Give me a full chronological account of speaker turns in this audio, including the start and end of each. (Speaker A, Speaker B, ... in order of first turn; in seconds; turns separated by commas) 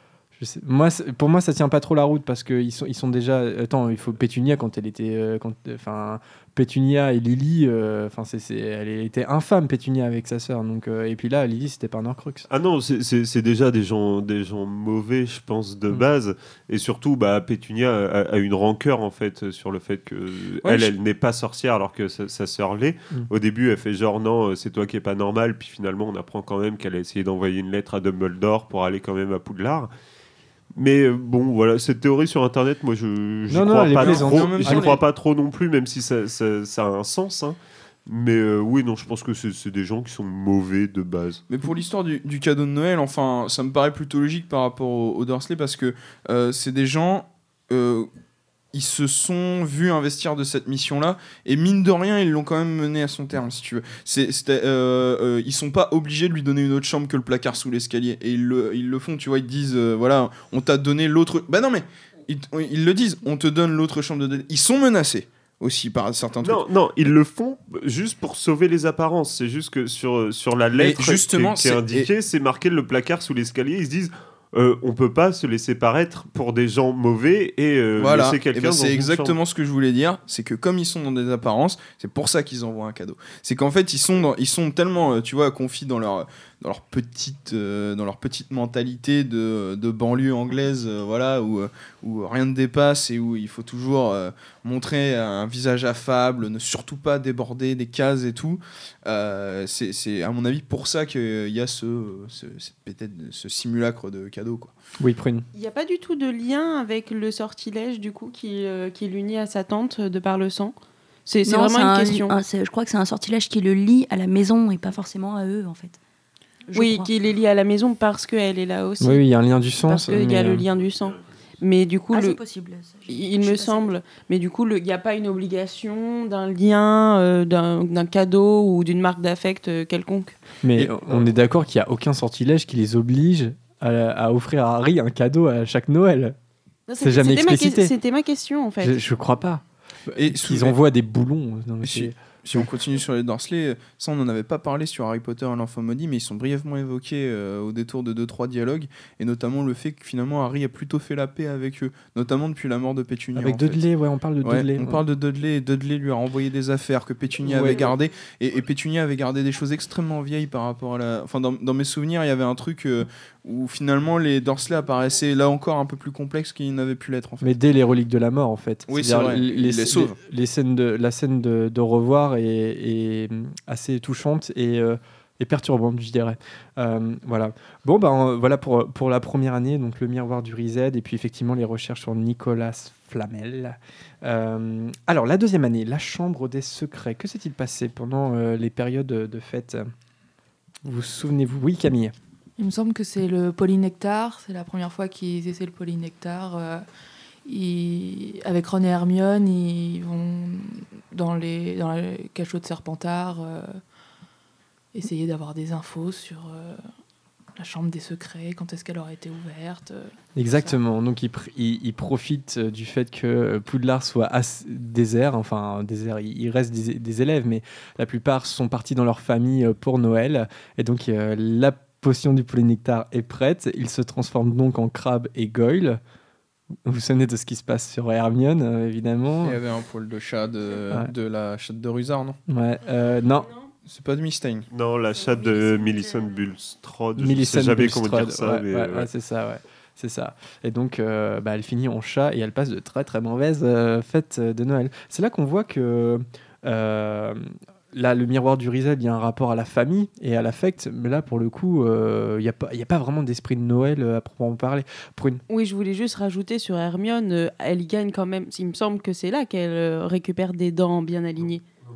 Speaker A: 0.4-12.4, Speaker B: 12.5-29.9, Speaker C: 20.6-20.9, Speaker B: 30.7-41.4, Speaker A: 33.5-34.9, Speaker C: 33.9-35.0, Speaker C: 41.5-48.1, Speaker C: 48.7-66.6, Speaker B: 66.4-79.4, Speaker C: 70.8-72.1, Speaker C: 78.0-104.7, Speaker A: 105.0-105.4, Speaker D: 105.5-110.7, Speaker D: 111.2-112.3, Speaker E: 111.4-116.0, Speaker E: 116.7-117.1, Speaker D: 116.7-119.2, Speaker A: 119.0-120.6, Speaker D: 119.8-122.4, Speaker E: 122.1-124.0, Speaker D: 123.1-130.4, Speaker A: 130.6-136.3, Speaker C: 130.7-131.3, Speaker D: 136.9-139.0, Speaker A: 137.0-137.9, Speaker A: 138.8-142.7, Speaker C: 140.1-140.8, Speaker C: 141.8-153.8, Speaker A: 153.3-155.0, Speaker C: 154.4-167.5, Speaker A: 157.4-157.9, Speaker A: 167.4-189.9, Speaker C: 168.9-170.2, Speaker A: 190.8-192.1, Speaker F: 192.6-196.8, Speaker F: 197.4-203.8, Speaker F: 204.9-206.8, Speaker F: 207.6-210.8, Speaker A: 210.3-226.0, Speaker A: 226.8-229.6, Speaker C: 229.4-232.4, Speaker A: 232.5-233.5, Speaker C: 233.8-234.7, Speaker B: 234.7-239.1, Speaker A: 237.2-247.4, Speaker A: 247.9-255.4, Speaker D: 255.5-261.6